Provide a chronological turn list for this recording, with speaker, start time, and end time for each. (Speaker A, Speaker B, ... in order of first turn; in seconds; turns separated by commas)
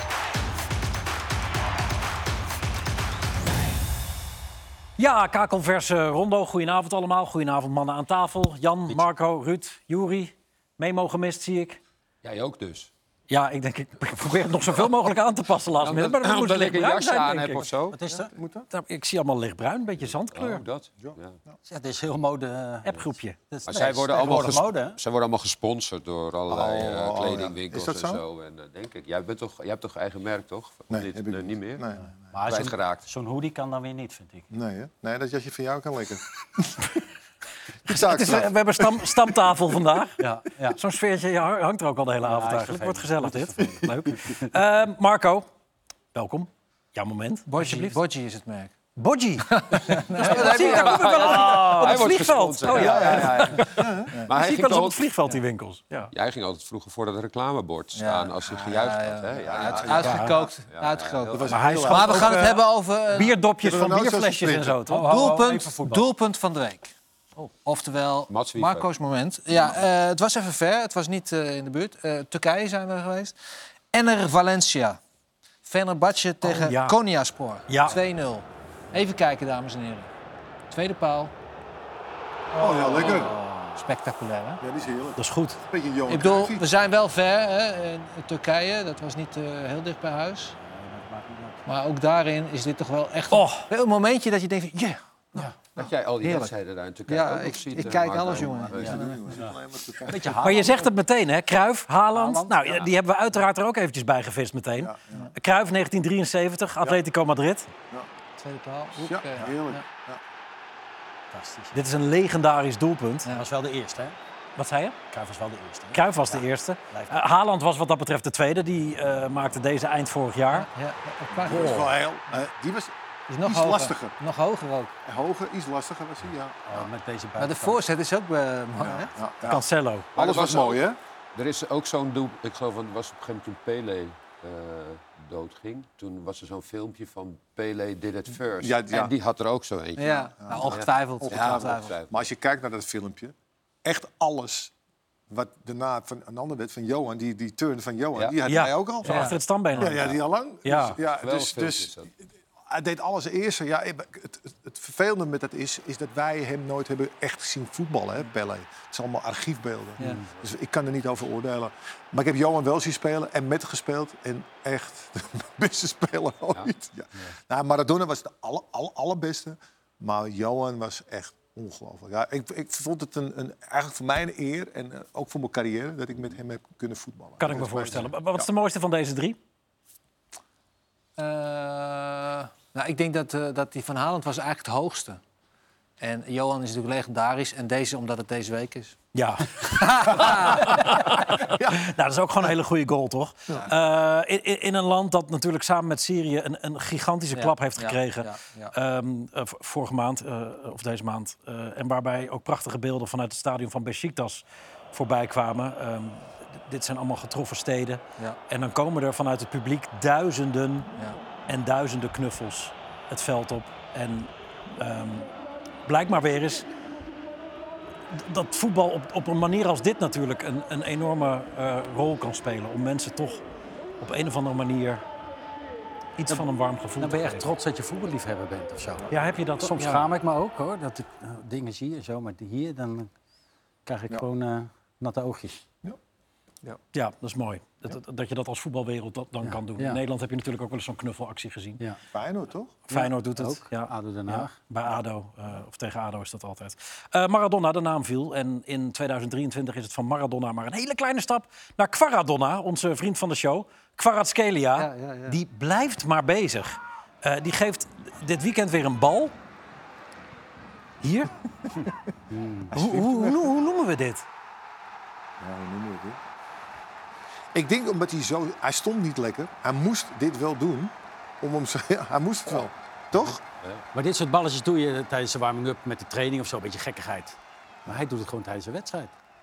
Speaker A: 5.0-11.8, Speaker B: 12.2-12.9, Speaker A: 13.3-17.7, Speaker B: 15.8-18.0, Speaker C: 17.9-18.3, Speaker D: 18.1-18.7, Speaker A: 18.7-20.6, Speaker B: 20.3-21.4, Speaker D: 21.0-21.5, Speaker C: 21.7-22.9, Speaker A: 22.9-23.4, Speaker C: 23.5-25.0, Speaker B: 23.6-31.8, Speaker D: 26.5-28.2, Speaker D: 30.9-32.1, Speaker C: 32.3-34.5, Speaker B: 32.5-33.0, Speaker D: 34.5-37.0, Speaker D: 37.9-39.8, Speaker A: 37.9-40.2, Speaker C: 40.3-40.8, Speaker A: 40.7-45.5, Speaker C: 42.2-44.5, Speaker A: 46.1-48.0, Speaker E: 47.5-48.7, Speaker A: 49.0-56.1, Speaker E: 49.5-52.0, Speaker B: 50.2-55.0, Speaker D: 52.7-54.2, Speaker B: 56.1-61.5, Speaker E: 58.0-63.4, Speaker D: 59.5-60.2, Speaker A: 60.0-60.4, Speaker D: 61.3-62.6, Speaker A: 61.5-62.6, Speaker A: 63.1-65.4, Speaker D: 63.6-64.8, Speaker C: 64.9-66.1, Speaker E: 64.9-73.3, Speaker B: 68.3-68.9, Speaker E: 73.9-75.0, Speaker E: 75.7-80.1, Speaker A: 76.4-77.0, Speaker A: 77.7-78.0, Speaker E: 80.7-81.3, Speaker E: 82.5-84.6, Speaker D: 82.6-83.4, Speaker D: 84.6-86.7, Speaker A: 85.2-85.6, Speaker E: 86.1-90.6, Speaker C: 90.6-91.6, Speaker E: 91.7-96.5, Speaker A: 93.3-93.7, Speaker B: 95.8-99.0, Speaker E: 97.1-99.4, Speaker D: 98.4-100.4, Speaker C: 98.8-100.9, Speaker A: 100.4-107.7, Speaker C: 102.1-102.5, Speaker D: 104.8-105.2, Speaker E: 108.4-109.8, Speaker D: 109.0-110.2, Speaker C: 111.3-111.8, Speaker A: 111.7-113.3, Speaker C: 113.3-114.2, Speaker A: 114.6-115.0, Speaker C: 115.1-117.2, Speaker A: 115.9-120.7, Speaker E: 120.5-121.9, Speaker D: 121.3-124.2, Speaker A: 121.5-121.9, Speaker E: 123.3-124.9, Speaker D: 125.0-126.9, Speaker C: 126.7-127.8, Speaker E: 127.4-129.1, Speaker D: 128.8-131.0, Speaker A: 129.5-130.1, Speaker B: 130.2-142.3, Speaker D: 138.6-139.1, Speaker E: 140.0-141.9, Speaker D: 141.2-144.7, Speaker D: 145.3-152.1, Speaker A: 148.5-150.1, Speaker E: 149.1-149.3, Speaker B: 149.9-150.2, Speaker A: 150.6-151.0, Speaker B: 151.2-152.1, Speaker D: 152.7-178.5, Speaker A: 177.4-179.4, Speaker E: 181.2-185.2, Speaker E: 186.0-189.0, Speaker A: 189.2-210.9, Speaker E: 189.6-190.9, Speaker D: 191.5-191.8, Speaker E: 197.3-198.7, Speaker A: 211.5-215.3, Speaker A: 215.9-216.7, Speaker A: 218.1-223.4, Speaker A: 224.0-225.0, Speaker A: 226.2-227.5, Speaker C: 227.0-229.1, Speaker A: 229.1-230.1, Speaker C: 229.6-233.1, Speaker C: 233.8-235.6, Speaker A: 236.9-241.8, Speaker C: 239.4-240.0, Speaker D: 242.1-242.8, Speaker C: 242.9-244.6, Speaker A: 242.9-259.3, Speaker E: 254.8-255.4, Speaker A: 261.0-261.3, Speaker C: 262.3-262.7, Speaker D: 262.7-263.5, Speaker A: 262.7-264.2, Speaker D: 265.4-266.2, Speaker D: 267.5-273.4, Speaker C: 273.9-279.1